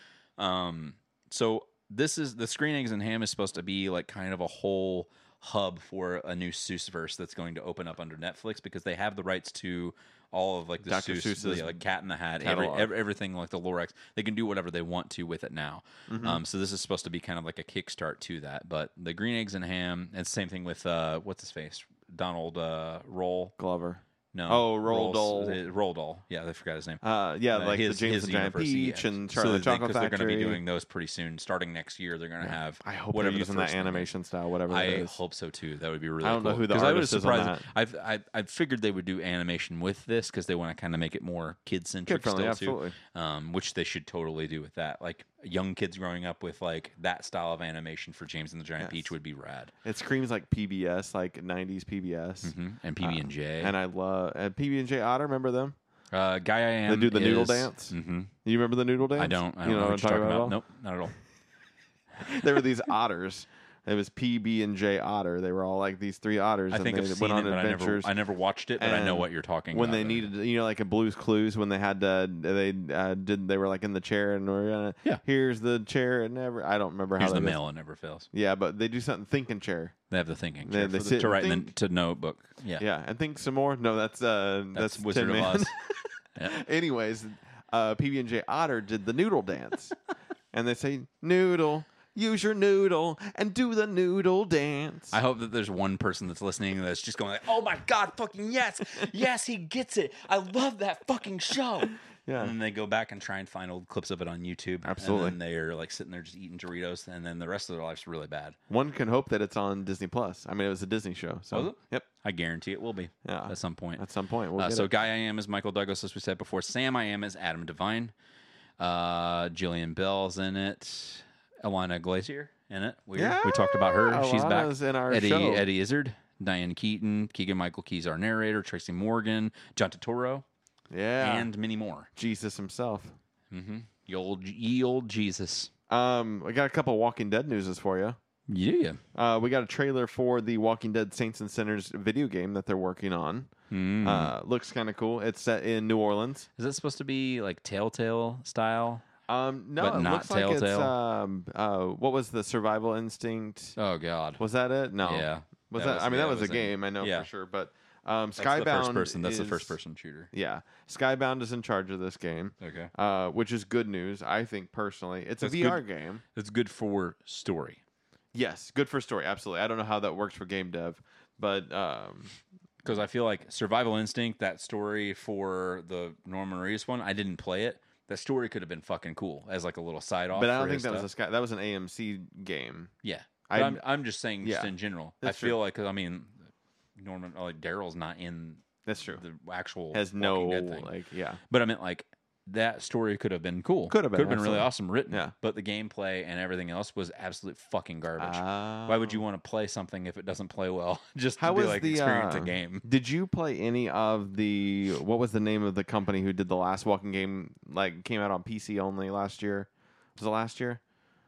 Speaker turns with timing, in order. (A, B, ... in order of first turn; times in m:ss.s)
0:00.4-0:23.6 A
0:10.8-0:11.8 B
0:12.4-0:12.9 B
0:16.1-0:16.4 B
0:23.6-0:25.6 B
0:24.3-0:34.1 A
0:27.0-0:30.6 B
0:32.4-0:35.2 B
0:34.7-0:49.7 A
0:36.2-0:37.7 B
0:42.1-0:43.0 B
0:48.8-0:49.1 B
0:49.8-0:55.8 B
0:52.4-0:53.7 A
0:56.1-0:58.3 A
0:56.9-1:00.6 B
0:59.2-1:01.2 A
1:02.2-1:08.1 B
1:06.7-1:10.3 A
1:08.8-1:17.6 B
1:17.2-1:18.3 A
1:18.3-1:20.0 B
1:20.1-1:22.8 A
1:20.6-1:21.7 B
1:22.8-1:30.0 B
1:24.7-1:25.8 A
1:30.5-1:35.2 B
1:35.1-1:48.6 A
1:42.3-1:42.5 B
1:44.8-1:45.4 B
1:48.7-1:52.1 B
1:51.5-1:54.0 A
1:53.2-1:54.9 B
1:54.6-1:58.1 A
1:58.8-2:10.4 A
2:03.2-2:05.6 B
2:10.9-2:11.5 B
2:11.2-2:12.1 A
2:12.2-2:13.2 B
2:13.5-2:15.7 A
2:15.9-2:18.2 B
2:18.5-2:19.0 A
2:19.2-2:23.5 B
2:23.7-2:24.3 A
2:24.0-2:26.5 B
2:26.6-2:29.1 A
2:29.3-2:33.8 B
2:29.8-2:30.9 A
2:33.8-2:34.4 A
2:34.4-2:39.8 B
2:35.0-2:37.3 A
2:38.4-2:40.3 A
2:40.3-2:46.2 B
2:42.6-2:42.9 A
2:45.4-2:45.8 A
2:46.4-2:47.8 A
2:48.3-2:52.4 B
2:52.8-3:01.1 A
3:00.3-3:02.9 B
3:03.0-3:08.6 A
3:03.5-3:03.8 B
3:04.4-3:05.6 B
3:08.9-3:09.2 B
3:09.2-3:10.9 A
3:09.9-3:11.4 B
3:11.5-3:22.8 A
3:13.9-3:15.3 B
3:18.2-3:19.2 B
3:21.4-3:30.8 B